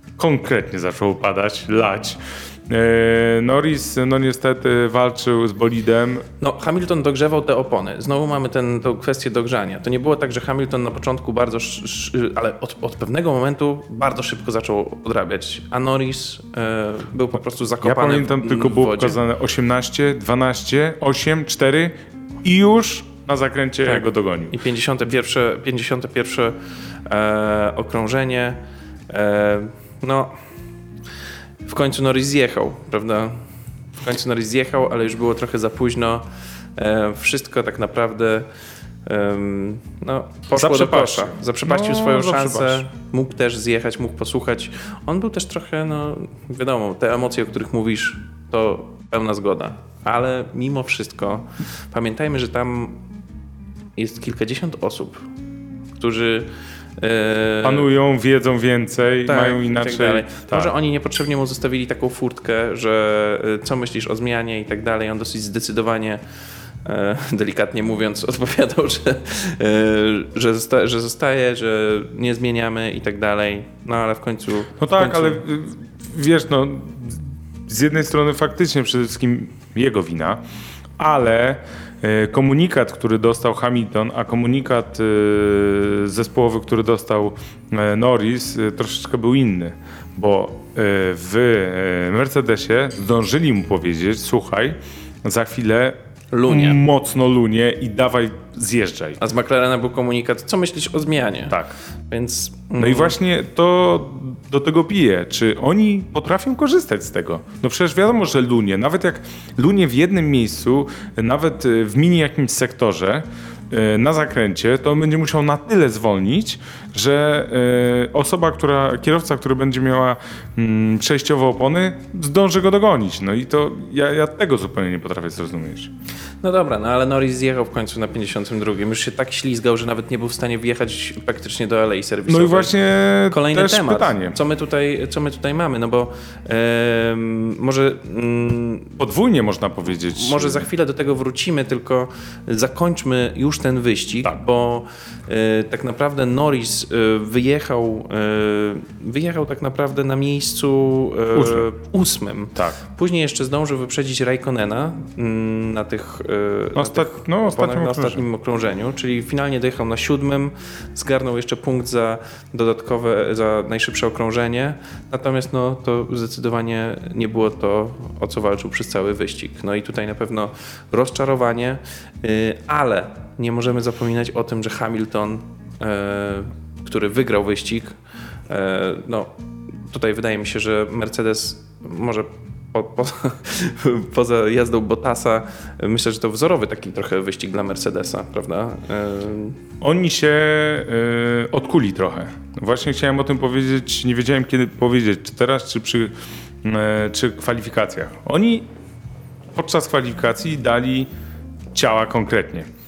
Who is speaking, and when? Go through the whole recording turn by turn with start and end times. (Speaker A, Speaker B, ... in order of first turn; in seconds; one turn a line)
Speaker A: 0.2-6.2
Speaker B: 6.4-19.2
Speaker A: 17.8-24.5
Speaker B: 23.9-28.6
Speaker B: 29.1-30.3
Speaker B: 31.6-33.4
Speaker B: 34.0-36.2
Speaker B: 36.8-38.5
Speaker B: 39.0-53.0
Speaker A: 40.5-42.8
Speaker B: 54.0-55.2
Speaker B: 56.0-57.9
Speaker A: 57.6-60.7
Speaker B: 59.3-66.2
Speaker B: 66.8-75.4
Speaker A: 74.8-80.4
Speaker A: 81.0-96.0
Speaker B: 96.3-96.8
Speaker A: 96.5-99.2
Speaker B: 99.2-103.2
Speaker A: 101.5-101.7
Speaker A: 102.8-125.9
Speaker B: 126.4-132.7
Speaker A: 132.3-134.3
Speaker B: 133.3-139.0
Speaker A: 139.0-140.7
Speaker B: 140.1-177.9
Speaker A: 151.3-151.7
Speaker A: 156.8-158.2
Speaker B: 178.5-179.3
Speaker B: 179.9-189.6
Speaker A: 189.8-198.7
Speaker A: 199.5-201.1
Speaker A: 201.7-202.7